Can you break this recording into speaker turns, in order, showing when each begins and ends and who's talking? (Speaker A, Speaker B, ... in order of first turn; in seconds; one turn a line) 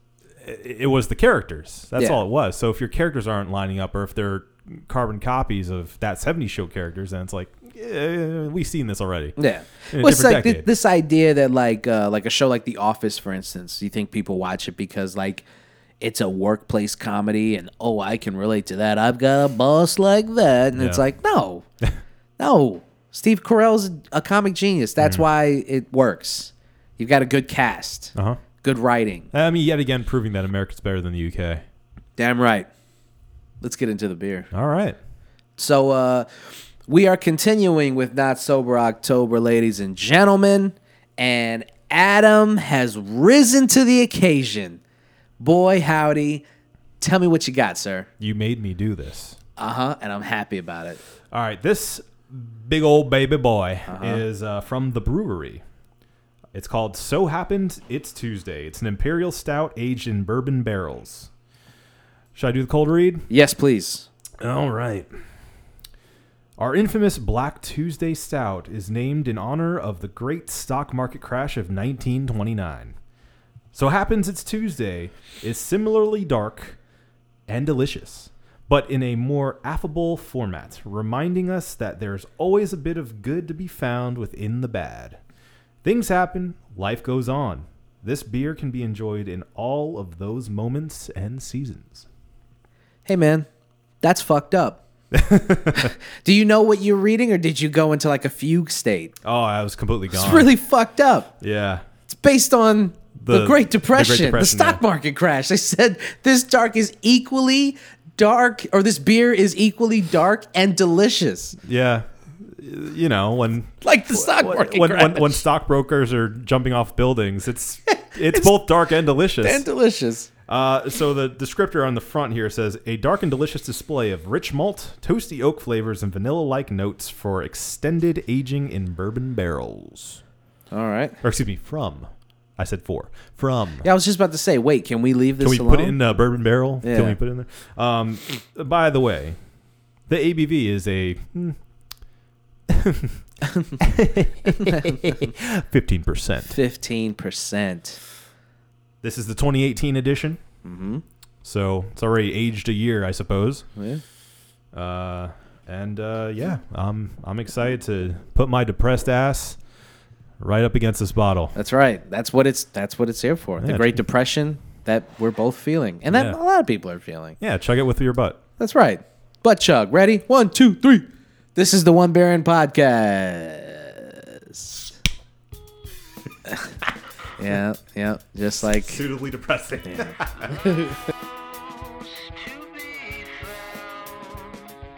Speaker A: 0.4-9.4
Speaker B: 9.4-15.5
Speaker A: 9.9-10.7
Speaker B: 16.0-21.6
Speaker A: 20.8-21.0
Speaker B: 22.4-29.3
Speaker A: 28.1-28.4
Speaker A: 29.3-31.6
Speaker B: 32.2-32.7
Speaker B: 33.6-34.5
Speaker A: 34.5-35.0
Speaker B: 35.6-36.3
Speaker B: 36.9-44.8
Speaker B: 45.4-46.4
Speaker B: 47.0-48.1
Speaker A: 48.2-49.4
Speaker B: 49.6-51.0
Speaker A: 51.3-55.6
Speaker B: 53.9-54.2
Speaker A: 56.5-61.3
Speaker A: 62.4-63.3
Speaker B: 63.3-64.1
Speaker A: 64.4-65.1
Speaker A: 66.6-73.0
Speaker A: 73.7-76.8
Speaker A: 77.5-85.2
Speaker A: 85.8-92.1
Speaker B: 93.1-93.5
Speaker B: 94.0-94.8
Speaker A: 95.1-95.9
Speaker B: 95.7-99.2
Speaker A: 99.2-100.5
Speaker B: 100.1-101.3
Speaker A: 101.4-101.8
Speaker B: 102.1-111.6
Speaker A: 103.2-104.8
Speaker A: 111.6-119.6
Speaker B: 113.8-115.5
Speaker B: 117.9-118.6
Speaker B: 119.4-120.3
Speaker A: 120.5-130.2
Speaker B: 130.7-131.2
Speaker A: 131.2-133.9
Speaker B: 133.8-136.0
Speaker A: 135.4-139.4
Speaker B: 136.8-137.2
Speaker A: 140.1-141.6
Speaker A: 142.7-143.2
Speaker B: 143.4-143.8
Speaker A: 143.8-146.6
Speaker B: 144.5-145.3
Speaker B: 146.5-148.0
Speaker A: 149.0-150.4
Speaker B: 150.7-151.0
Speaker A: 151.4-153.7
Speaker B: 153.8-154.0
Speaker A: 154.7-159.6
Speaker A: 160.4-161.5
Speaker B: 161.6-167.4
Speaker A: 163.6-164.0
Speaker A: 166.1-166.4
Speaker A: 167.4-168.4
Speaker B: 168.6-174.9
Speaker B: 177.4-179.0
Speaker A: 178.7-180.9
Speaker C: 180.7-184.7